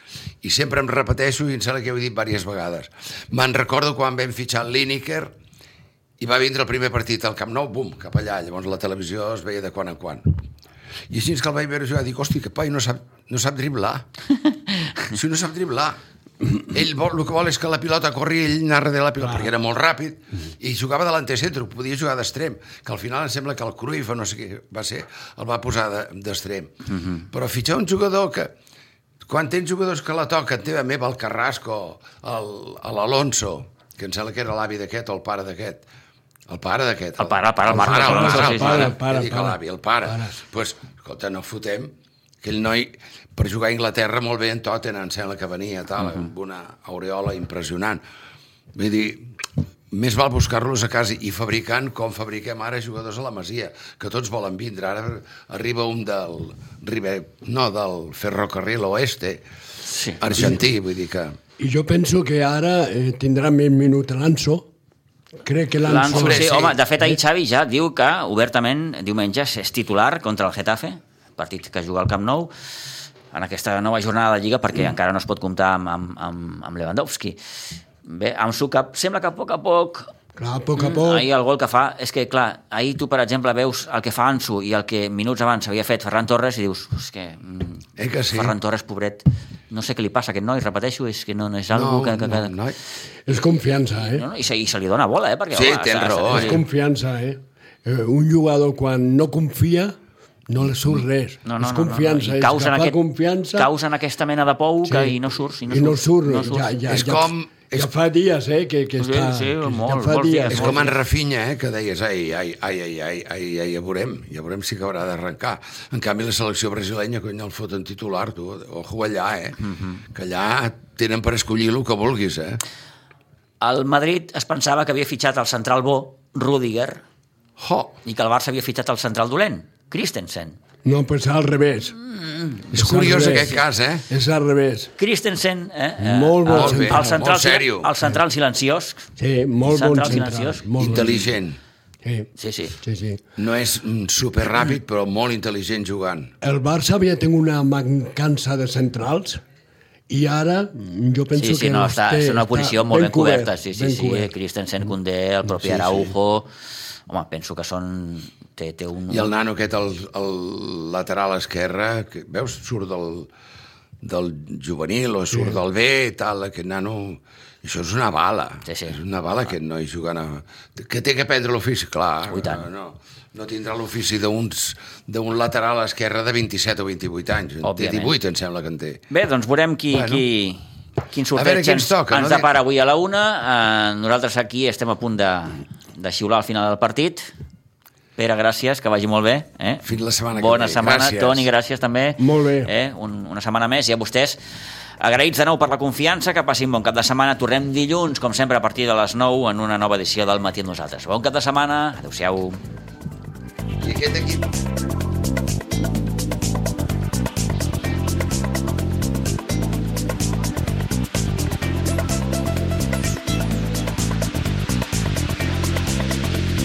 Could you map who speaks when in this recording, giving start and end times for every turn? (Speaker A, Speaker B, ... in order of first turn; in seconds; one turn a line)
Speaker A: 0.4-5.3
Speaker A: 6.2-10.4
Speaker A: 11.1-14.1
Speaker A: 15.1-16.0
Speaker A: 16.6-28.5
Speaker A: 29.3-35.9
Speaker A: 36.5-48.0
Speaker B: 37.2-38.9
Speaker C: 37.9-40.3
Speaker A: 48.7-49.3
Speaker A: 49.9-59.4
Speaker B: 59.9-60.2
Speaker A: 60.2-61.4
Speaker C: 61.6-64.7
Speaker C: 65.4-66.5
Speaker B: 65.8-72.5
Speaker A: 66.1-66.8
Speaker B: 73.3-77.4
Speaker B: 78.0-80.1
Speaker C: 80.4-81.3
Speaker B: 80.8-92.5
Speaker A: 88.0-88.5
Speaker A: 91.7-92.8
Speaker C: 93.3-94.3
Speaker B: 93.9-96.6
Speaker A: 95.5-96.6
Speaker C: 96.3-100.0
Speaker C: 100.5-103.7
Speaker B: 101.5-103.0
Speaker B: 103.5-106.8
Speaker C: 104.9-110.9
Speaker A: 106.9-107.9
Speaker B: 109.0-110.9
Speaker A: 110.5-122.6
Speaker B: 119.7-120.0
Speaker B: 123.6-127.0
Speaker A: 127.6-128.0
Speaker B: 128.1-130.6
Speaker C: 130.8-132.0
Speaker B: 132.1-132.7
Speaker A: 132.7-134.1
Speaker C: 132.7-134.9
Speaker B: 135.0-139.1
Speaker C: 136.0-137.2
Speaker A: 136.5-137.9
Speaker C: 139.2-141.3
Speaker B: 139.7-140.7
Speaker A: 140.8-141.6
Speaker C: 142.0-142.3
Speaker B: 142.4-142.8
Speaker C: 142.8-143.2
Speaker A: 143.4-146.3
Speaker C: 146.4-149.4
Speaker C: 150.1-154.3
Speaker B: 151.3-156.5
Speaker C: 155.7-156.1
Speaker B: 157.1-159.3
Speaker A: 159.1-163.3
Speaker A: 164.0-179.0
Speaker B: 168.7-169.0
Speaker B: 172.3-172.7
Speaker B: 177.6-178.2
Speaker B: 179.1-187.2
Speaker A: 179.9-180.2
Speaker A: 181.3-182.5
Speaker B: 188.2-189.8
Speaker A: 189.8-191.5
Speaker B: 190.3-194.4
Speaker C: 192.2-192.7
Speaker B: 195.0-202.6
Speaker A: 203.8-204.5